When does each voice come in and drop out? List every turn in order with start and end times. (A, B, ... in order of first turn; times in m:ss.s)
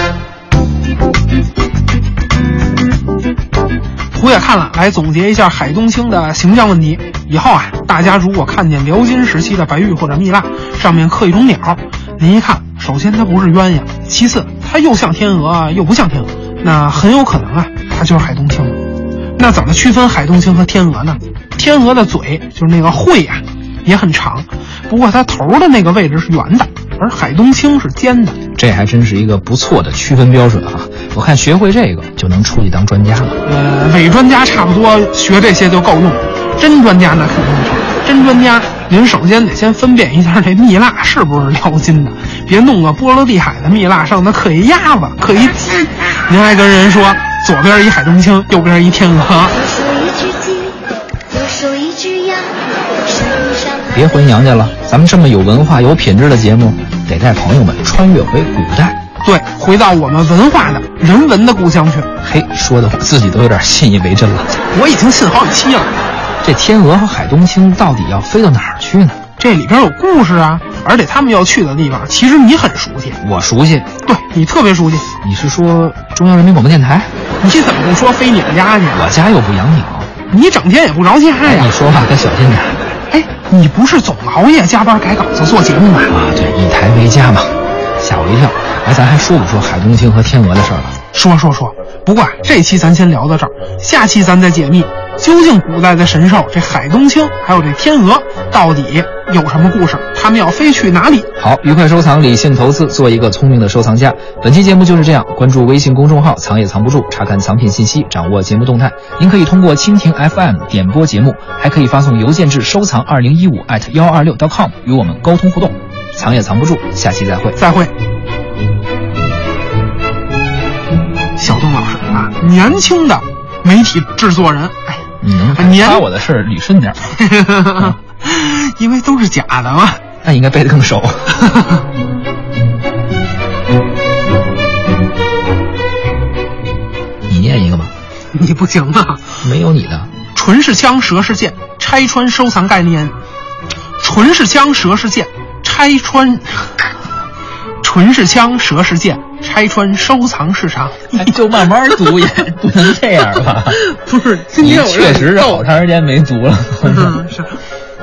0:04.1-0:18.8 A
0:19.4-0:28.4 A
0:28.6-0:33.4 B
0:33.4-0:49.6 A
0:49.6-0:50.8 C
0:51.3-0:53.8 C
0:53.9-0:59.0 B
0:59.2-1:02.1 A
1:02.2-1:04.6 B
1:04.7-1:06.0 A
1:06.4-1:09.2 B
1:09.4-1:13.2 A
1:13.2-1:13.9 B
1:14.0-1:15.1 A
1:15.2-1:17.1 B
1:17.4-1:19.1 A
1:18.9-1:20.1 B
1:20.3-1:21.7 A
1:21.4-1:22.8 B
1:23.1-1:26.1 A
1:26.1-1:31.0 B
1:31.1-1:41.3 A
1:41.4-1:57.6 B
1:57.6-1:57.9 A
2:01.4-2:06.0 A
2:05.2-2:07.2 B
2:07.1-2:10.0 A
2:10.2-2:11.3 B
2:11.4-2:11.8 A
2:17.3-2:17.9 B
2:18.3-2:19.4 A
2:19.4-2:20.1 B
2:20.3-2:23.2 A
2:24.0-2:26.8 A
2:27.8-2:31.3 A
2:31.1-2:33.8 B
2:33.7-2:35.6 A
2:34.6-2:37.2 B
2:36.8-2:37.6 A